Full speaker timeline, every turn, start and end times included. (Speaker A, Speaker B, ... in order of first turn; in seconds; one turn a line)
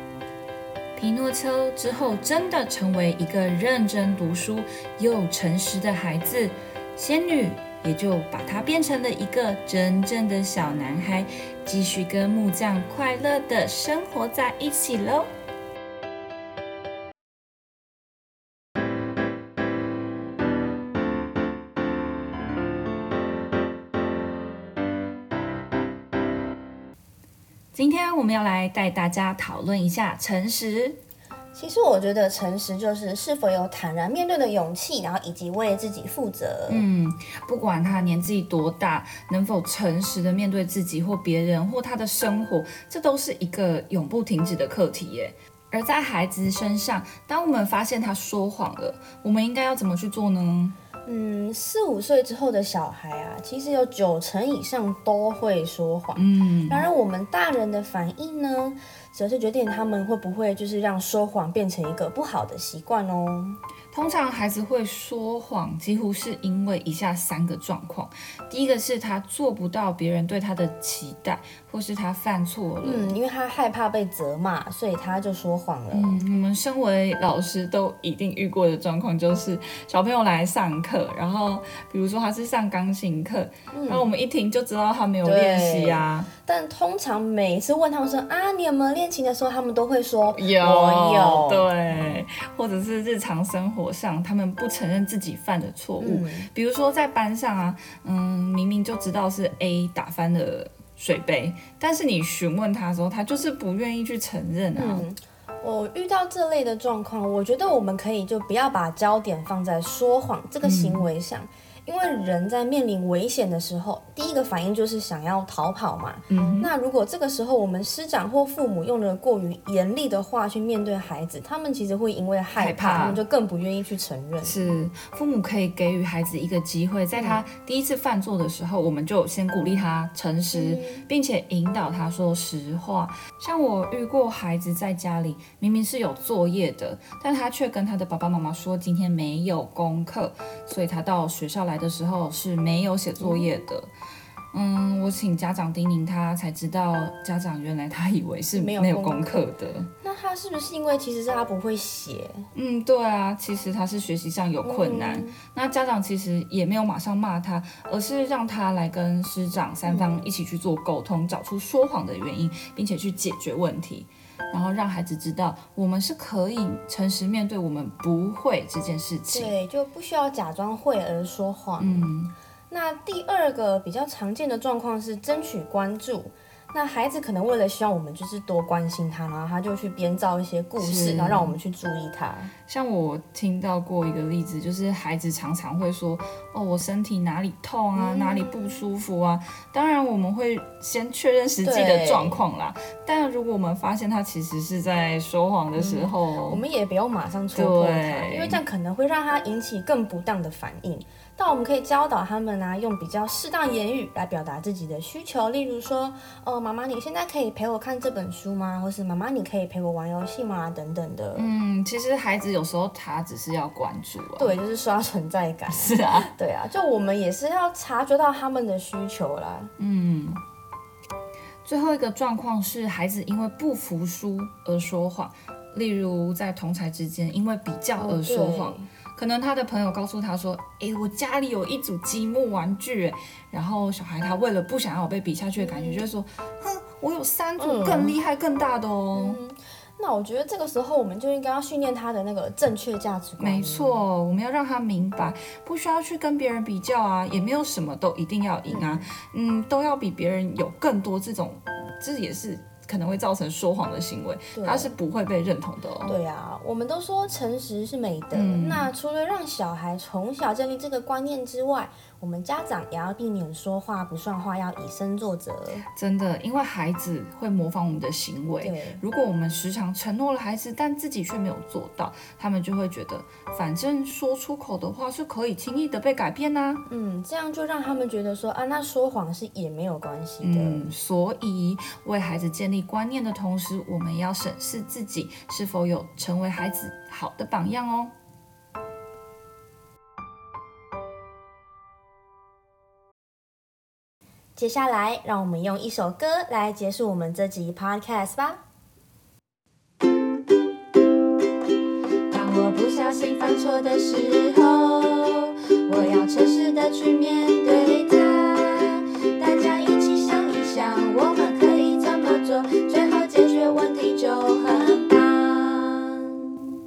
Speaker A: 1.0-15.3
Speaker A: 27.7-31.0
Speaker B: 31.5-36.9
Speaker A: 36.7-50.8
Speaker B: 51.1-63.6
Speaker A: 56.1-56.9
Speaker A: 63.9-73.2
Speaker B: 72.8-76.2
Speaker A: 75.9-86.3
Speaker B: 83.7-84.1
Speaker B: 85.2-92.1
Speaker A: 90.3-105.0
Speaker B: 96.0-96.5
Speaker B: 104.7-124.7
Speaker A: 110.6-111.1
Speaker A: 116.3-116.7
Speaker A: 122.5-123.2
Speaker A: 124.4-143.9
Speaker B: 127.2-127.4
Speaker B: 130.5-131.1
Speaker B: 143.2-143.5
Speaker A: 144.5-149.9
Speaker B: 148.5-149.5
Speaker B: 150.0-152.4
Speaker A: 152.6-169.5
Speaker B: 154.6-155.4
Speaker B: 159.8-160.2
Speaker B: 169.3-172.1
Speaker A: 171.8-172.3
Speaker B: 172.7-182.5
Speaker A: 180.8-181.6
Speaker A: 182.7-196.6
Speaker B: 188.0-188.8
Speaker B: 191.6-192.4
Speaker B: 195.8-211.5
Speaker A: 197.5-198.6
Speaker A: 211.3-214.6
Speaker B: 214.4-219.7
Speaker A: 215.7-216.3
Speaker A: 219.8-220.4
Speaker A: 221.7-239.4
Speaker B: 228.0-228.9
Speaker B: 235.7-236.0
Speaker B: 237.6-238.2
Speaker B: 239.1-244.0
Speaker A: 243.4-256.2
Speaker B: 248.7-249.1
Speaker B: 254.6-255.0
Speaker B: 256.1-265.9
Speaker A: 258.3-258.9
Speaker A: 265.9-276.8
Speaker B: 268.6-269.0
Speaker B: 276.9-280.9
Speaker A: 280.4-288.1
Speaker B: 294.6-298.6
Speaker A: 302.3-316.4